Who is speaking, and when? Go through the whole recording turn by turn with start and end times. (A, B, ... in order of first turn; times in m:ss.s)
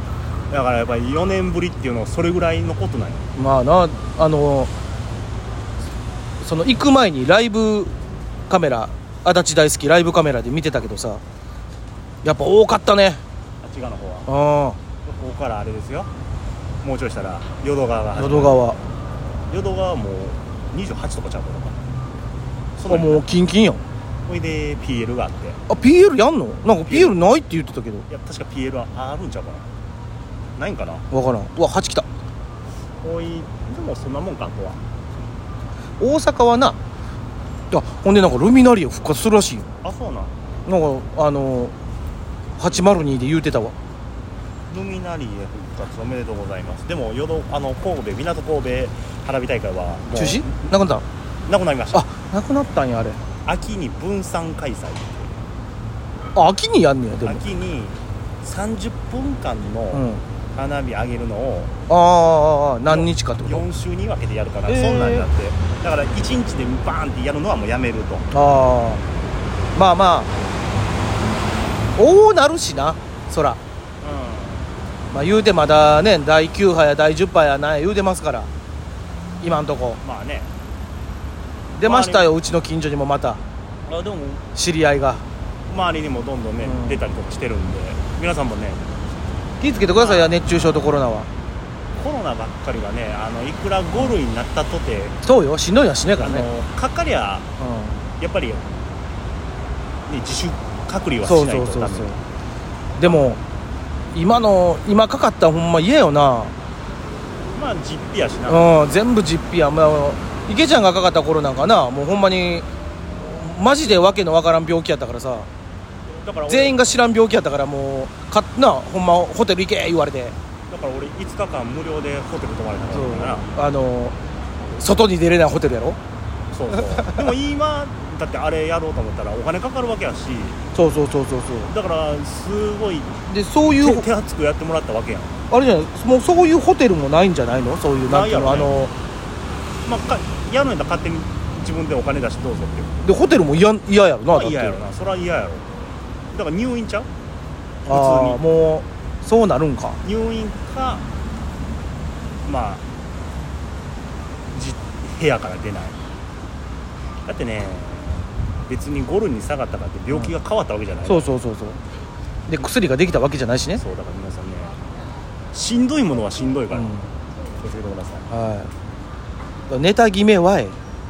0:00.5-0:03.3 A
0:03.4-0:04.7 B
0:06.4-0:07.9 B
0:08.5-0:11.2 B
0:12.2-0:13.2 B
0:13.6-0:14.3 A
0:14.3-0:14.8 B
0:15.0-0:16.1 A
0:16.8-0:18.6 A
0:18.2-0:18.8 B
0:19.5-0:21.8 A
0:22.8-0:23.2 A
0:22.9-0:23.8 B
0:24.3-0:25.6 A
0:25.7-0:28.0 B
0:26.8-0:27.2 A
0:28.1-0:29.6 A
0:30.6-0:31.0 A
0:31.1-0:32.0 B
0:33.0-0:34.8 A
0:36.0-0:36.8 B
0:37.7-0:39.6 B
0:39.8-0:40.3 A
0:40.6-0:41.7 B
0:42.6-0:43.7 B
0:44.7-0:50.6 A
0:50.1-0:51.0 B
0:51.5-0:52.0 A
0:51.9-0:53.2 B
0:53.4-0:55.3 A
0:56.3-0:57.4 B
0:57.2-1:01.7 A
0:59.9-1:00.2 B
1:01.9-1:03.6 B
1:02.8-1:08.3 A
1:04.7-1:05.3 B
1:08.3-1:09.0 B
1:09.7-1:10.3 B
1:12.0-1:13.6 B
1:14.0-1:14.8 A
1:15.1-1:18.5 B
1:19.4-1:20.0 B
1:20.0-1:20.5 A
1:21.7-1:23.4 B
1:21.8-1:22.3 A
1:23.9-1:24.4 A
1:24.5-1:25.2 B
1:25.7-1:28.9 A
1:26.6-1:27.0 B
1:29.6-1:31.3 B
1:29.9-1:30.4 A
1:31.9-1:35.2 A
1:35.2-1:36.5 B
1:36.2-1:37.5 A
1:37.6-1:38.0 B
1:38.2-1:38.6 A
1:40.1-1:42.1 A
1:41.2-1:42.2 B
1:43.0-1:43.4 B
1:43.0-1:43.3 A
1:44.1-1:46.5 B
1:47.5-1:48.7 A
1:48.5-1:52.7 B
1:53.2-1:55.5 B
1:56.2-1:57.0 A
1:56.5-2:00.4 B
2:00.7-2:03.5 A
2:02.9-2:04.2 B
2:04.7-2:06.0 B
2:06.5-2:10.6 A
2:10.7-2:11.7 B
2:11.6-2:15.4 A
2:13.3-2:14.1 B
2:15.5-2:18.9 B
2:18.1-2:18.8 A
2:19.8-2:23.1 A
2:23.0-2:24.8 B
2:24.3-2:25.7 A
2:26.3-2:27.1 A
2:27.8-2:28.4 A
2:27.9-2:30.0 B
2:30.0-2:31.0 A
2:32.4-2:32.8 A
2:34.5-2:36.0 A
2:37.2-2:41.3 A
2:41.0-2:41.8 B
2:42.5-2:43.8 B
2:43.8-2:44.8 A
2:45.5-2:46.9 A
2:46.7-2:47.0 B
2:47.6-2:48.3 A
2:48.3-2:48.7 B
2:49.7-2:50.8 B